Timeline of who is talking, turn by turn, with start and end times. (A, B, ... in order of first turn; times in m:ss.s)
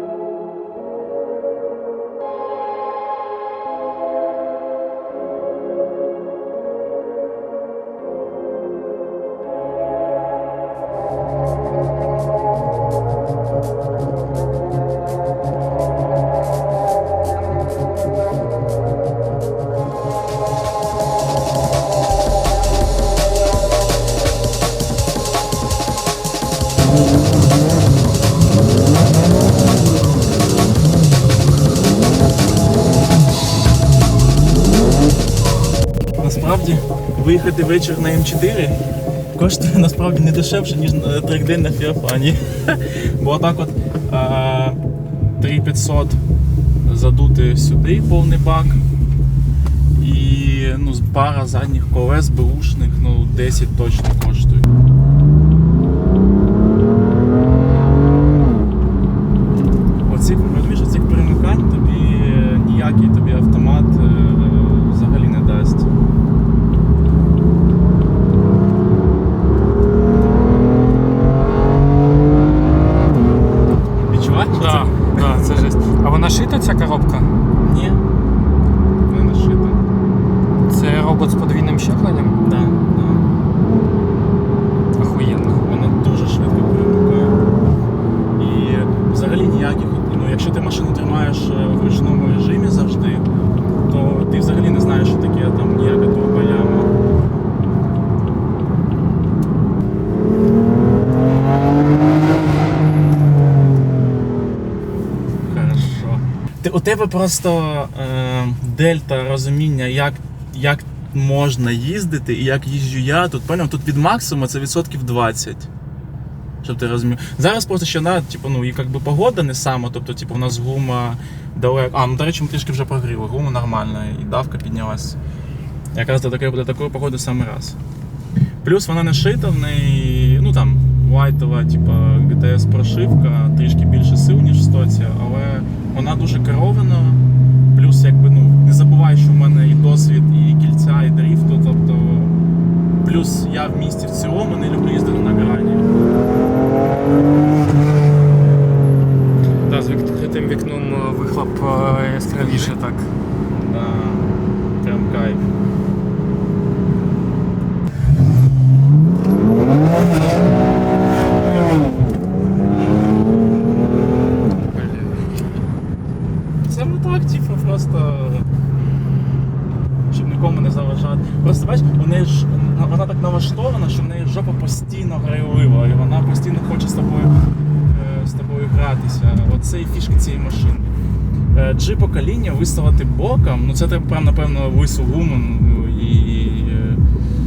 0:36.2-0:38.8 A
0:39.4-0:44.8 A
0:45.4-0:46.2 A
0:46.8-0:48.8 A
0:49.9-0:54.7 A
1:00.1-1:05.9 A
1:14.1-1:15.5 A
1:14.6-1:17.3 B
1:17.6-1:18.0 A
1:19.1-1:19.8 A
1:20.7-1:22.4 B
1:22.4-1:23.3 A
1:25.0-1:25.6 B
1:25.6-1:27.4 A
1:28.4-1:33.3 A
1:33.9-1:36.9 A
1:45.4-1:55.7 A
1:56.6-2:05.2 A
2:05.9-2:07.8 A
2:08.6-2:17.2 A
2:17.7-2:22.4 A
2:23.0-2:25.9 A
2:29.7-2:33.1 B
2:32.4-2:32.7 A
2:33.5-2:35.5 A
2:44.7-2:45.1 B
2:46.7-2:48.5 A
2:50.1-3:00.9 A
3:01.5-3:07.0 A